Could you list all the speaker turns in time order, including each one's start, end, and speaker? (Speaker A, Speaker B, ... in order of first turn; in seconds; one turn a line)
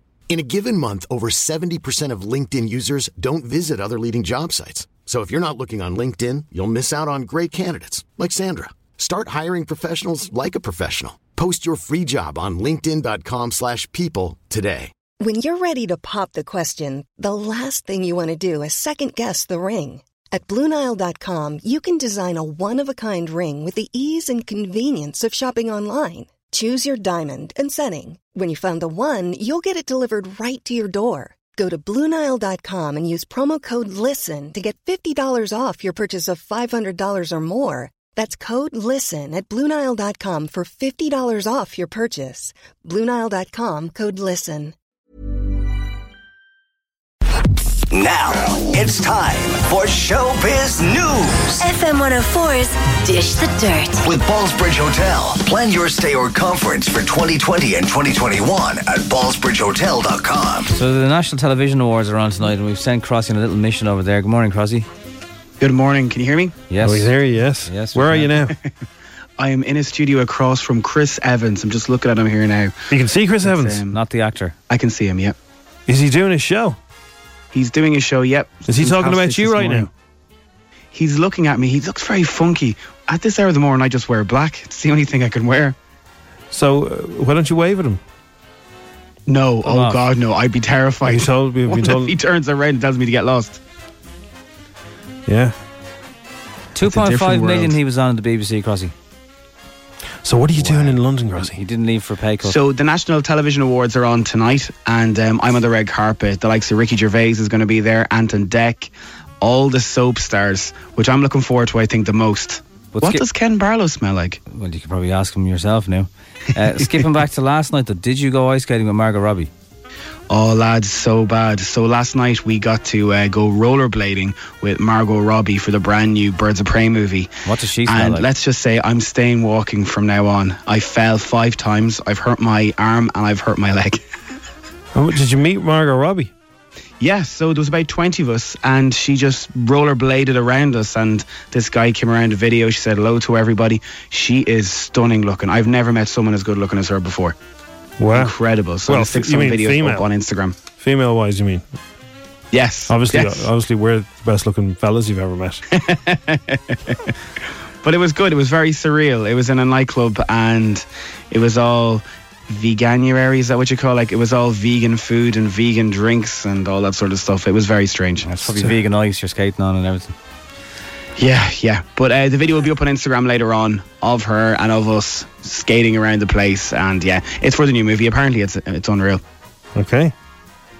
Speaker A: 0.3-14.9
Speaker B: 15.2-44.7
Speaker C: 47.9-51.6
Speaker D: 51.6-54.1
Speaker C: 54.0-60.7
Speaker E: 60.7-64.9
Speaker F: 65.6-66.5
Speaker E: 66.7-67.1
Speaker G: 66.8-68.5
Speaker E: 67.6-68.3
Speaker F: 69.4-72.7
Speaker G: 72.9-73.8
Speaker F: 73.4-74.0
Speaker E: 73.9-74.5
Speaker F: 74.7-75.3
Speaker G: 75.9-76.8
Speaker F: 77.5-79.9
Speaker G: 78.7-79.9
Speaker F: 80.9-85.8
Speaker G: 86.5-88.0
Speaker F: 89.3-93.6
Speaker E: 89.6-90.0
Speaker G: 91.0-92.1
Speaker G: 95.3-95.5
Speaker E: 96.7-98.9
Speaker F: 96.8-97.8
Speaker G: 100.2-101.6
Speaker E: 101.5-102.6
Speaker F: 102.4-114.4
Speaker E: 112.9-113.2
Speaker E: 114.5-119.5
Speaker F: 120.3-127.3
Speaker E: 127.4-128.3
Speaker F: 127.8-134.0
Speaker G: 134.9-136.3
Speaker F: 137.0-147.3
Speaker G: 148.0-148.3
Speaker F: 148.1-150.5
Speaker G: 148.9-150.1
Speaker G: 150.8-151.6
Speaker F: 152.5-153.5
Speaker G: 152.9-155.6
Speaker F: 155.7-157.1
Speaker F: 157.8-168.7
Speaker E: 168.2-170.1
Speaker F: 171.2-179.2
Speaker G: 179.7-180.1